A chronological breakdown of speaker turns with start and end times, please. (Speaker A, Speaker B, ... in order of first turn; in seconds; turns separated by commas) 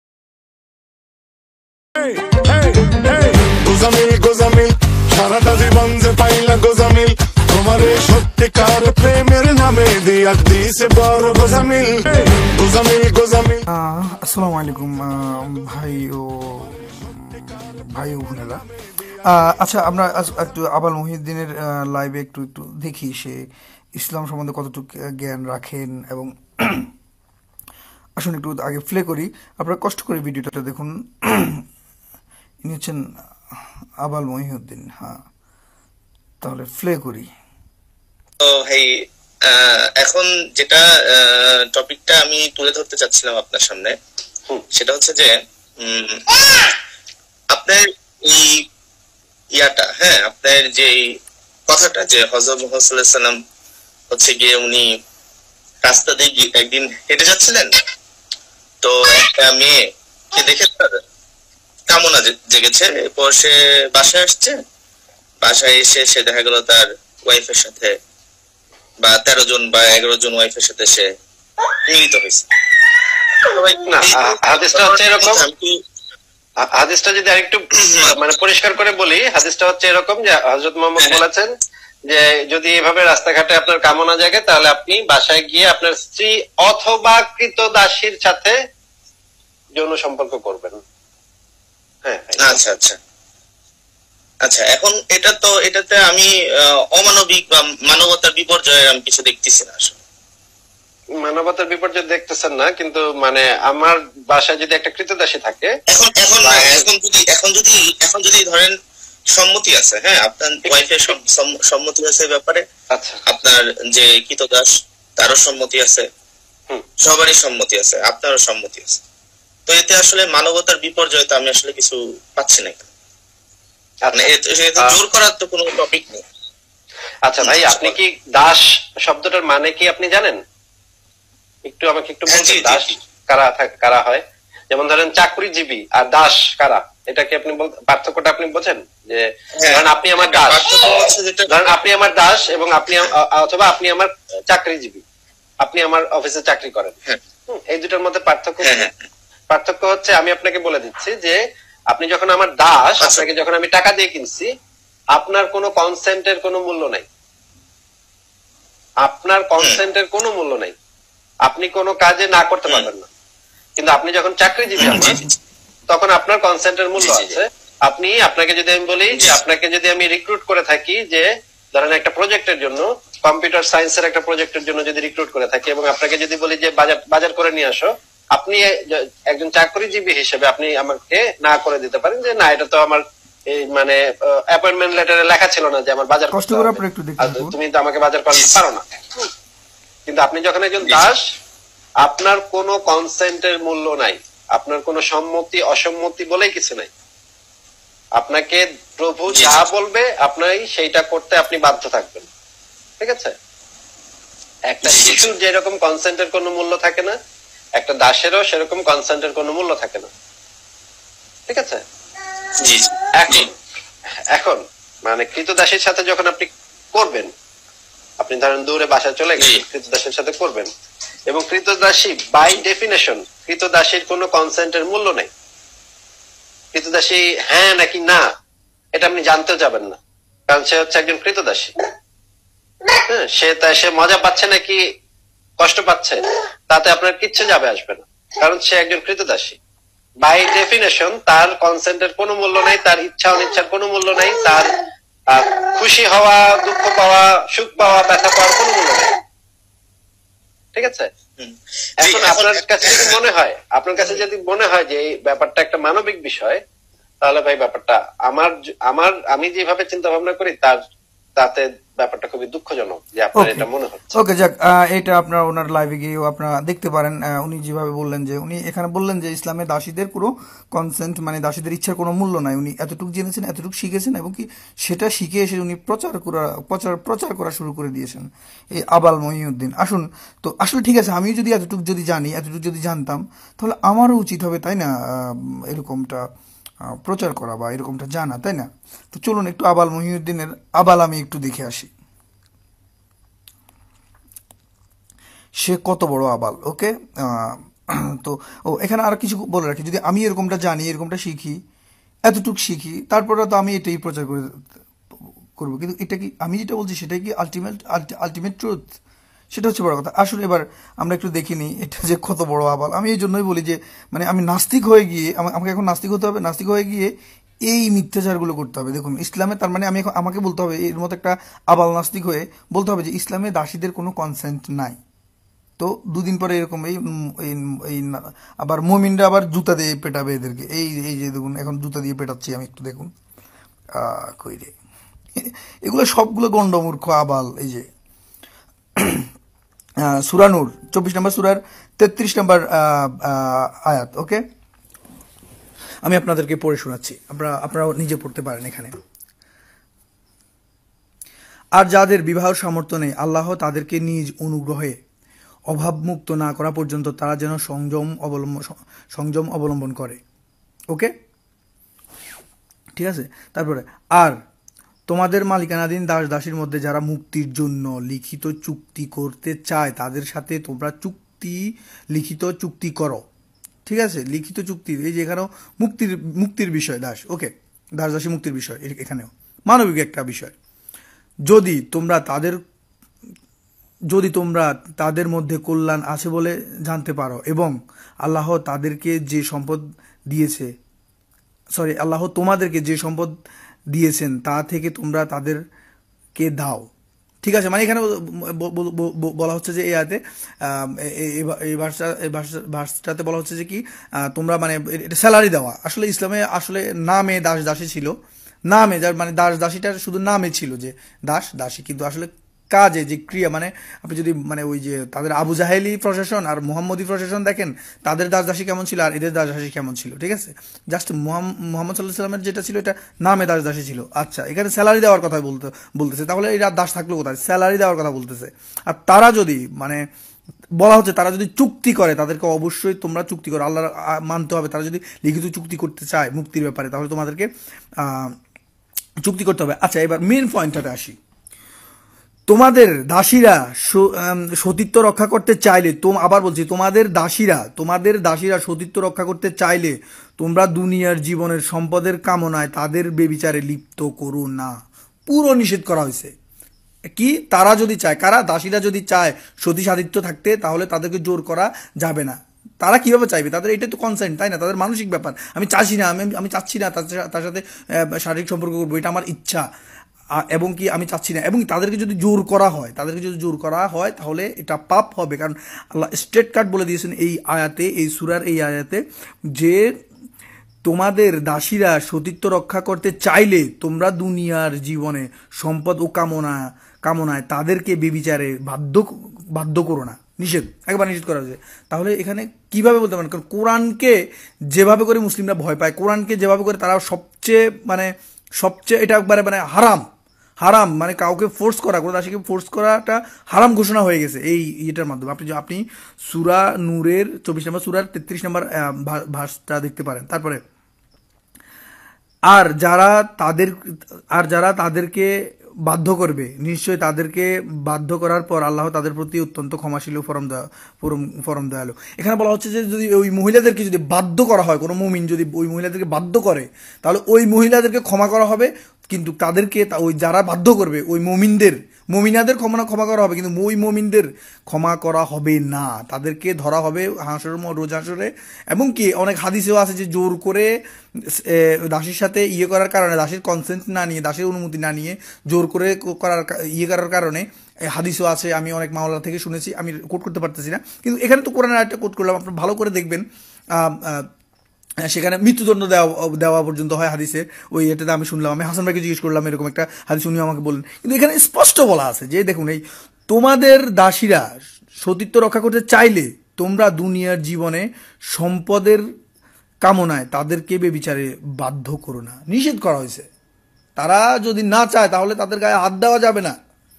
Speaker A: 2.0-13.6, Speaker B: 13.7-18.6, Speaker B: 19.2-23.4, Speaker B: 24.0-26.9, Speaker B: 28.2-31.6, Speaker B: 32.6-33.0, Speaker B: 34.0-35.2, Speaker B: 36.4-37.3, Speaker C: 38.4-38.9, Speaker C: 39.5-43.9, Speaker C: 44.7-46.7, Speaker C: 47.5-48.6, Speaker C: 49.5-51.0, Speaker C: 51.7-53.4, Speaker C: 54.1-54.9, Speaker C: 55.8-57.7, Speaker C: 58.8-59.8, Speaker C: 60.3-61.0, Speaker C: 61.9-64.6, Speaker C: 65.4-67.9, Speaker C: 69.0-71.1, Speaker C: 71.9-72.5, Speaker C: 73.5-75.8, Speaker D: 73.8-75.4, Speaker D: 76.6-81.5, Speaker C: 77.9-78.2, Speaker D: 82.1-88.5, Speaker D: 89.8-90.8, Speaker D: 92.0-92.6, Speaker C: 92.4-93.0, Speaker C: 94.5-100.0, Speaker D: 101.2-105.7, Speaker C: 105.9-108.7, Speaker D: 106.3-106.9, Speaker C: 109.3-112.7, Speaker D: 112.9-113.2, Speaker C: 113.3-116.1, Speaker C: 117.0-119.0, Speaker C: 119.7-122.9, Speaker D: 124.1-125.0, Speaker C: 124.1-126.2, Speaker D: 127.3-130.4, Speaker C: 127.4-128.0, Speaker D: 131.7-145.0, Speaker C: 132.3-132.9, Speaker C: 139.6-141.7, Speaker D: 145.6-147.0, Speaker D: 147.5-148.9, Speaker C: 148.6-148.9, Speaker D: 149.5-151.4, Speaker D: 151.9-154.5, Speaker C: 153.0-153.3, Speaker D: 155.2-157.1, Speaker D: 159.0-160.7, Speaker D: 161.5-163.1, Speaker D: 163.8-165.2, Speaker C: 164.8-165.3, Speaker D: 165.9-184.0, Speaker C: 167.0-167.4, Speaker C: 169.1-169.4, Speaker D: 184.5-189.3, Speaker B: 186.3-187.6, Speaker C: 188.3-188.6, Speaker D: 190.1-191.2, Speaker C: 190.8-191.1, Speaker D: 192.0-196.9, Speaker D: 198.2-202.3, Speaker C: 199.3-199.7, Speaker D: 203.0-203.3, Speaker D: 204.7-207.2, Speaker C: 204.8-205.3, Speaker D: 207.8-210.1, Speaker D: 211.5-211.8, Speaker C: 212.6-213.5, Speaker D: 213.2-213.5, Speaker D: 214.3-217.3, Speaker D: 218.2-220.7, Speaker C: 219.4-219.6, Speaker D: 221.3-225.3, Speaker D: 226.7-228.2, Speaker D: 229.0-231.8, Speaker D: 232.9-234.8, Speaker D: 235.6-239.6, Speaker D: 240.2-244.7, Speaker D: 245.3-249.2, Speaker D: 250.8-251.1, Speaker C: 251.4-253.2, Speaker D: 252.0-256.6, Speaker D: 257.2-260.8, Speaker D: 261.4-264.1, Speaker B: 263.4-286.2, Speaker B: 286.9-291.9, Speaker B: 295.6-301.6, Speaker B: 302.3-304.7, Speaker B: 305.6-308.9, Speaker B: 309.5-317.1, Speaker B: 317.7-325.0, Speaker B: 325.8-333.1, Speaker B: 334.0-334.7, Speaker B: 335.4-337.9, Speaker B: 339.0-339.3, Speaker B: 340.0-344.4, Speaker B: 346.1-348.9, Speaker B: 351.8-355.0, Speaker B: 355.7-360.2, Speaker B: 363.0-364.4, Speaker B: 365.1-373.2, Speaker B: 373.9-380.5, Speaker B: 381.5-382.6, Speaker B: 384.1-390.7, Speaker B: 391.8-393.4, Speaker B: 393.9-395.6, Speaker B: 396.4-396.9, Speaker B: 397.4-408.1, Speaker B: 408.7-430.0, Speaker B: 430.8-437.5, Speaker B: 438.0-438.4, Speaker B: 439.2-441.2, Speaker B: 442.5-454.7, Speaker B: 455.3-456.3, Speaker B: 457.2-469.7, Speaker B: 470.4-479.0, Speaker B: 479.6-479.9, Speaker B: 480.9-494.2, Speaker B: 494.7-500.1, Speaker B: 500.6-510.6, Speaker B: 512.5-513.8, Speaker B: 514.4-515.3, Speaker B: 515.9-540.7, Speaker B: 541.3-553.2, Speaker B: 553.8-554.3, Speaker B: 555.1-564.5, Speaker B: 565.0-569.0, Speaker B: 569.8-573.3, Speaker B: 574.0-576.5